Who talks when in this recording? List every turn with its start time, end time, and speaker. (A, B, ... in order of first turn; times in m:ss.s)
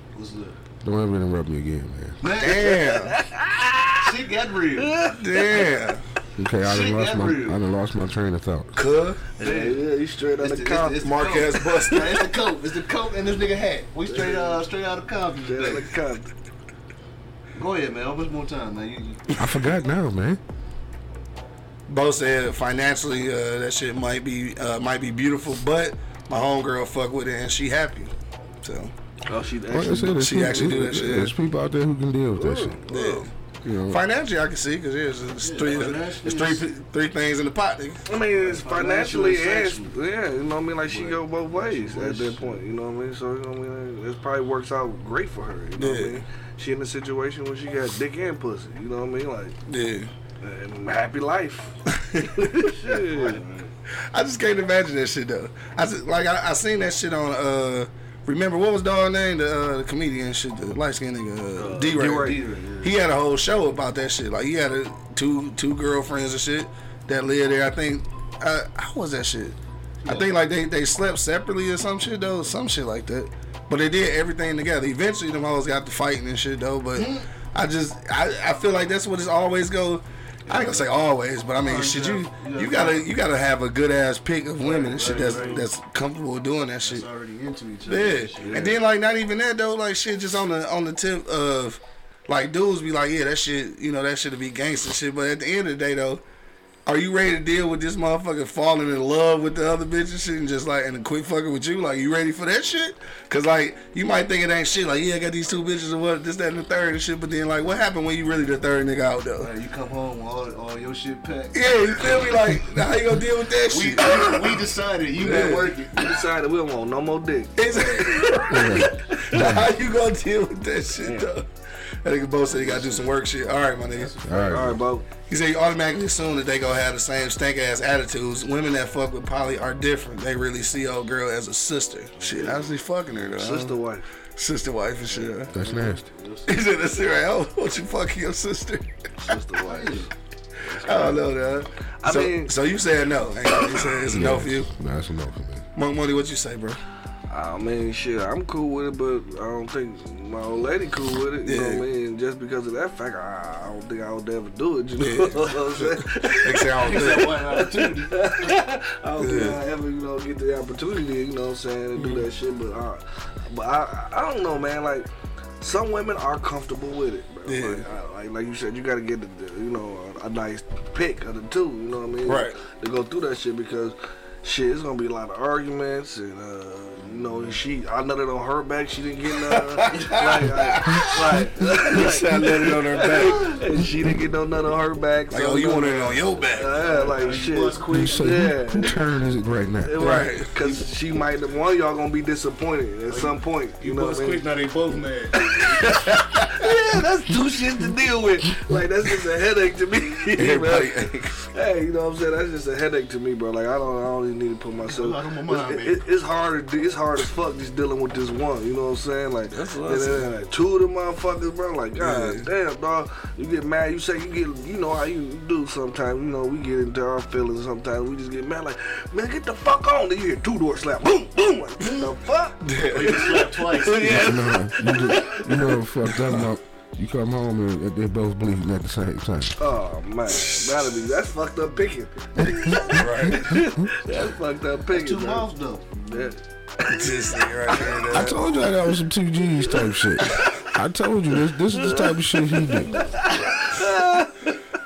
0:00.1-0:00.6 A
0:00.8-0:02.2 B
0:02.2-0:02.8 A
0:02.4-0:03.2 C
0:02.6-0:04.1 D
0:04.0-0:05.1 A
0:04.8-0:05.7 D
0:05.1-0:06.0 C
0:06.4-0:08.8 B
0:06.6-0:07.6 A
0:08.7-0:09.2 C
0:09.4-0:09.9 A
0:09.4-0:11.2 D
0:10.4-0:16.0 A
0:11.0-0:12.1 C
0:14.0-0:14.6 D
0:15.4-0:16.3 D
0:17.5-0:19.2 A
0:19.3-0:19.6 C
0:19.4-0:20.4 B
0:21.9-0:28.9 C
0:29.3-0:30.8 D
0:29.7-0:32.8 B
0:30.1-0:31.3 C
0:32.4-0:33.3 D
0:32.9-0:33.3 C
0:33.6-0:34.0 B
0:33.9-0:38.0 C
0:35.4-0:36.7 A
0:38.1-0:49.6 D
0:38.3-0:39.9 A
0:40.9-0:42.6 A
0:45.8-0:46.2 C
0:49.7-0:50.1 C
0:50.4-0:51.7 D
0:51.9-0:52.6 C
0:52.3-0:53.4 D
0:52.8-0:53.7 A
0:54.1-1:27.1 C
1:01.6-1:03.0 A
1:01.6-1:02.4 D
1:10.0-1:10.3 A
1:17.0-1:17.3 A
1:20.5-1:20.9 A
1:21.6-1:23.1 A
1:24.6-1:25.7 A
1:25.1-1:25.6 D
1:26.8-1:28.8 A
1:27.8-1:36.2 C
1:28.4-1:28.8 D
1:36.9-1:49.5 C
1:49.4-1:52.2 A
1:51.5-1:54.6 C
1:53.7-1:56.2 A
1:55.2-1:55.7 C
1:55.2-1:59.4 D
1:57.6-2:01.4 C
1:58.5-1:59.7 B
2:01.0-2:01.3 D
2:02.0-2:04.2 C
2:02.4-2:04.8 A
2:04.2-2:04.8 B
2:04.5-2:05.1 D
2:05.3-2:13.8 C
2:12.2-2:12.7 A
2:13.2-2:14.1 D
2:14.4-2:15.5 C
2:15.1-2:16.6 A
2:15.5-2:16.1 B
2:16.5-2:18.9 C
2:19.2-2:20.1 D
2:19.6-2:20.1 A
2:20.6-2:21.3 D
2:20.8-2:24.7 C
2:22.0-2:22.5 D
2:23.6-2:23.9 D
2:24.1-2:25.7 B
2:25.7-2:26.8 C
2:27.3-2:45.1 D
2:31.4-2:31.8 C
2:35.0-2:37.4 C
2:36.8-2:38.6 A
2:39.2-2:39.6 C
2:42.0-2:42.2 C
2:45.6-3:09.0 D
2:47.5-2:47.8 C
2:52.2-2:52.6 C
2:57.0-2:57.6 A
2:59.4-3:03.5 C
3:01.0-3:01.7 A
3:05.3-3:06.7 C
3:06.6-3:08.4 A
3:07.9-3:10.3 B
3:09.8-3:14.4 D
3:10.0-3:10.5 C
3:10.6-3:10.9 A
3:13.1-3:16.7 A
3:15.4-3:45.8 D
3:20.4-3:21.4 C
3:24.8-3:26.0 A
3:29.5-3:30.3 C
3:32.0-3:32.5 C
3:42.6-3:43.3 C
3:42.8-3:44.4 A
3:44.0-3:49.6 B
3:46.0-3:46.5 C
3:49.6-3:55.5 D
3:50.3-3:50.9 C
3:52.4-3:53.9 B
3:52.9-3:53.5 C
3:54.9-3:56.0 A
3:56.0-3:58.0 D
3:56.8-3:58.5 C
3:58.1-4:03.0 B
3:59.7-4:00.6 D
4:01.7-4:04.6 D